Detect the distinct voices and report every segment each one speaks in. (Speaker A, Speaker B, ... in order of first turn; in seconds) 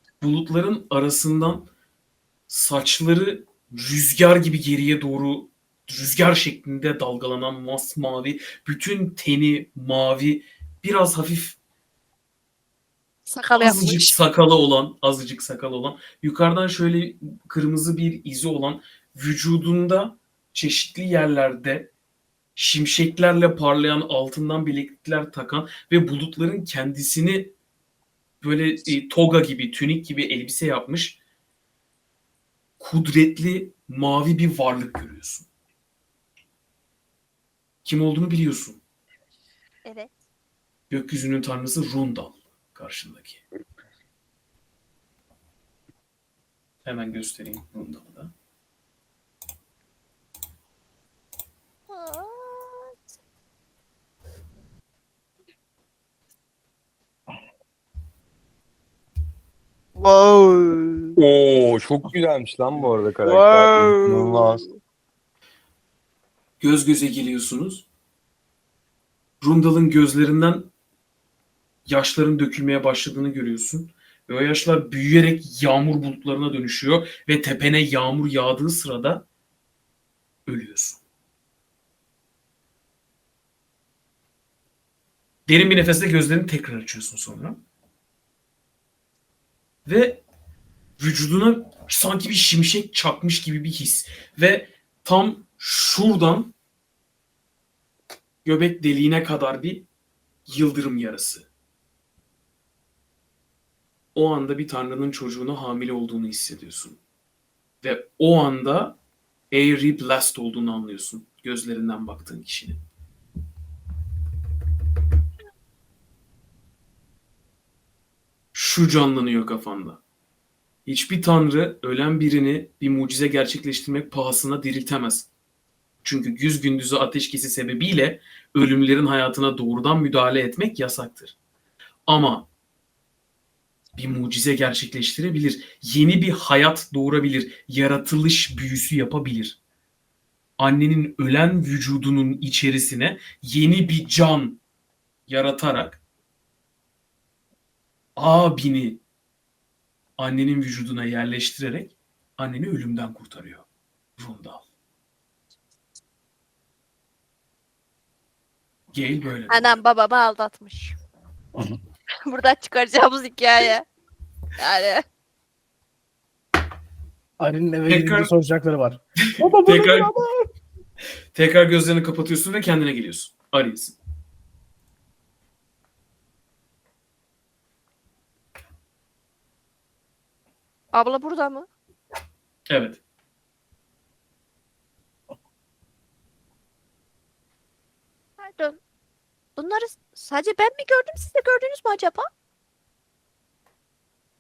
Speaker A: 0.2-1.7, 2.5-11.6, 13.6-21.9, 22.6-27.5, 28.4-31.2, 32.8-35.5, 37.8-38.8, 40.9-43.4, 46.8-48.3, 66.6-67.9, 69.4-70.7, 71.9-79.3, 80.5-81.0, 85.5-87.6, 89.8-90.2, 91.0-96.5, 98.4-99.9, 100.5-101.5, 104.2-107.0, 107.8-109.0, 109.5-112.8, 118.5-120.0, 120.9-125.3, 126.0-131.4, 132.1-132.5, 134.0-139.6, 140.6-144.6, 145.3-146.0, 148.2-149.0, 150.2-153.7, 154.2-154.7, 158.9-159.7, 167.9-168.3, 169.6-170.1, 171.3-174.0, 182.7-183.0
Speaker B: 13.3-14.2, 39.9-40.1, 51.9-52.9, 159.5-160.9, 162.3-163.9, 164.6-165.0, 180.9-181.7, 188.4-188.8, 189.6-192.3
Speaker C: 60.0-61.1, 63.2-64.5
Speaker D: 61.2-64.6
Speaker E: 167.4-170.4